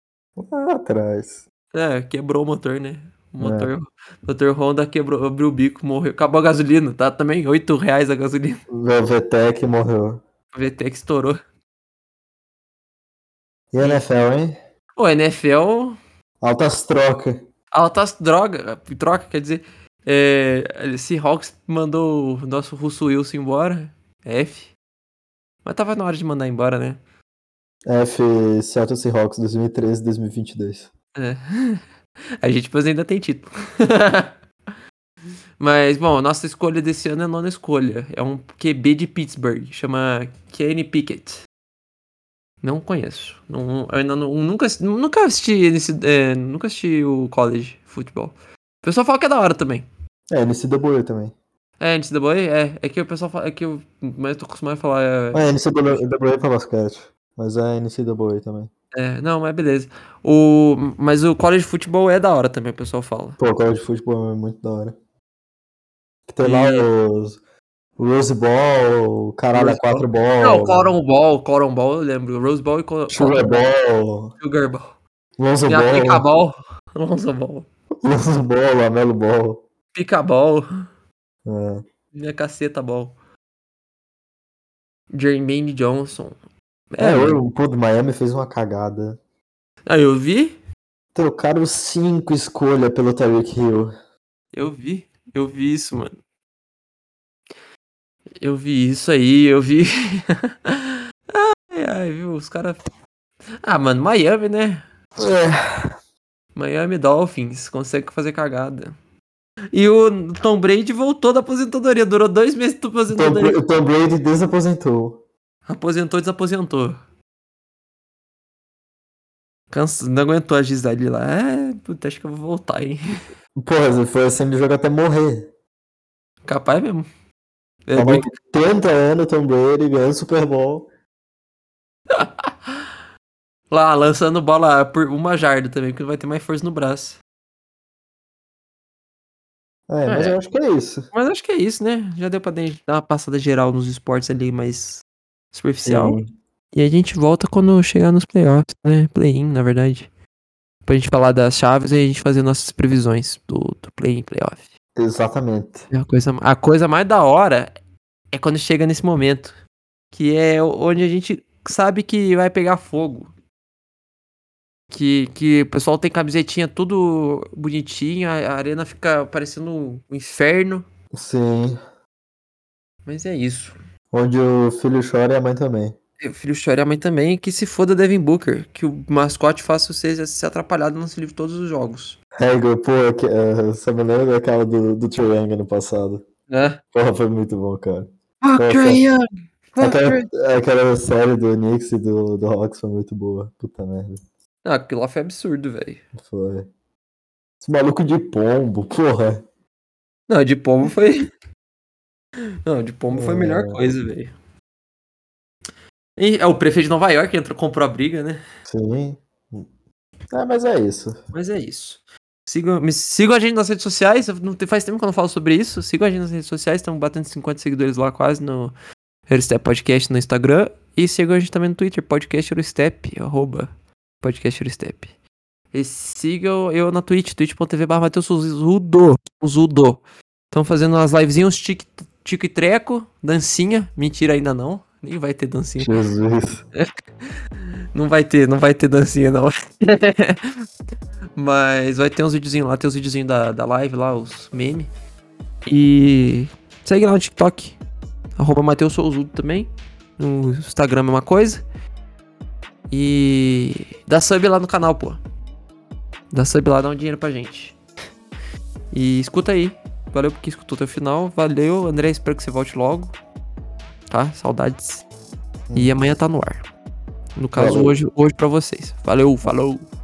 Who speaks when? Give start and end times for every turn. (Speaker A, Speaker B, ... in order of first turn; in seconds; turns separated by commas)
Speaker A: 0.4-1.4, Speaker B: 1.7-8.6, Speaker A: 3.4-3.7, Speaker A: 8.7-10.2, Speaker B: 10.5-11.4, Speaker A: 13.7-14.6, Speaker B: 14.9-16.0, Speaker A: 16.4-17.4, Speaker B: 17.7-24.7, Speaker B: 25.6-27.0, Speaker A: 27.9-30.9, Speaker B: 31.2-31.8, Speaker B: 32.4-34.4, Speaker B: 35.6-41.4, Speaker B: 42.6-49.9, Speaker A: 50.3-51.3, Speaker B: 51.8-56.0, Speaker A: 55.3-58.7, Speaker B: 59.0-63.4, Speaker A: 63.4-65.0, Speaker A: 66.3-67.4, Speaker B: 66.4-66.9, Speaker A: 68.0-70.9, Speaker B: 69.5-73.6, Speaker A: 73.1-74.3, Speaker B: 74.4-74.9, Speaker A: 75.4-76.2, Speaker B: 75.7-77.7, Speaker A: 78.0-79.6, Speaker B: 79.9-80.7, Speaker A: 81.5-81.8, Speaker B: 82.1-83.1, Speaker B: 85.1-86.4, Speaker B: 86.9-87.4, Speaker A: 87.0-89.2, Speaker B: 89.9-90.6, Speaker A: 91.1-93.9, Speaker B: 94.5-96.2, Speaker B: 98.4-102.8, Speaker B: 103.6-104.8, Speaker A: 105.2-105.9, Speaker B: 106.5-108.9, Speaker B: 109.7-113.6, Speaker A: 113.1-115.2, Speaker B: 115.7-117.0, Speaker B: 119.7-123.0, Speaker A: 123.6-125.5, Speaker B: 126.5-127.0, Speaker B: 127.9-128.3, Speaker A: 128.0-130.9, Speaker B: 132.1-132.9, Speaker B: 133.7-137.2, Speaker A: 139.9-141.1, Speaker B: 140.1-140.4, Speaker B: 141.1-146.2, Speaker A: 145.8-146.3, Speaker B: 146.7-150.1, Speaker B: 150.9-154.7, Speaker A: 154.9-155.9, Speaker B: 155.9-157.7, Speaker B: 158.3-159.6, Speaker B: 160.1-163.3, Speaker B: 164.9-170.9, Speaker A: 171.1-171.8, Speaker B: 173.1-173.8, Speaker A: 174.1-176.0, Speaker B: 176.2-182.2, Speaker A: 182.4-186.2, Speaker B: 186.5-186.8, Speaker A: 186.9-189.0, Speaker B: 188.4-189.2, Speaker B: 189.7-190.3, Speaker A: 189.8-194.2, Speaker B: 194.6-196.0, Speaker A: 196.2-196.7, Speaker A: 197.6-199.4, Speaker B: 200.3-201.3, Speaker B: 202.6-204.3, Speaker A: 203.1-203.8, Speaker B: 206.2-208.4, Speaker A: 208.7-209.7, Speaker A: 210.3-211.2, Speaker B: 211.3-218.7, Speaker B: 219.3-223.7, Speaker B: 224.2-225.1, Speaker B: 225.7-235.9, Speaker A: 235.8-236.6, Speaker B: 237.9-240.5, Speaker B: 241.4-244.9, Speaker B: 245.7-247.8, Speaker B: 248.4-251.6, Speaker B: 252.9-255.2, Speaker B: 256.3-257.8, Speaker B: 258.9-263.1, Speaker B: 264.1-265.0, Speaker A: 265.7-266.0, Speaker B: 265.7-266.6, Speaker B: 267.4-269.8, Speaker A: 267.6-267.9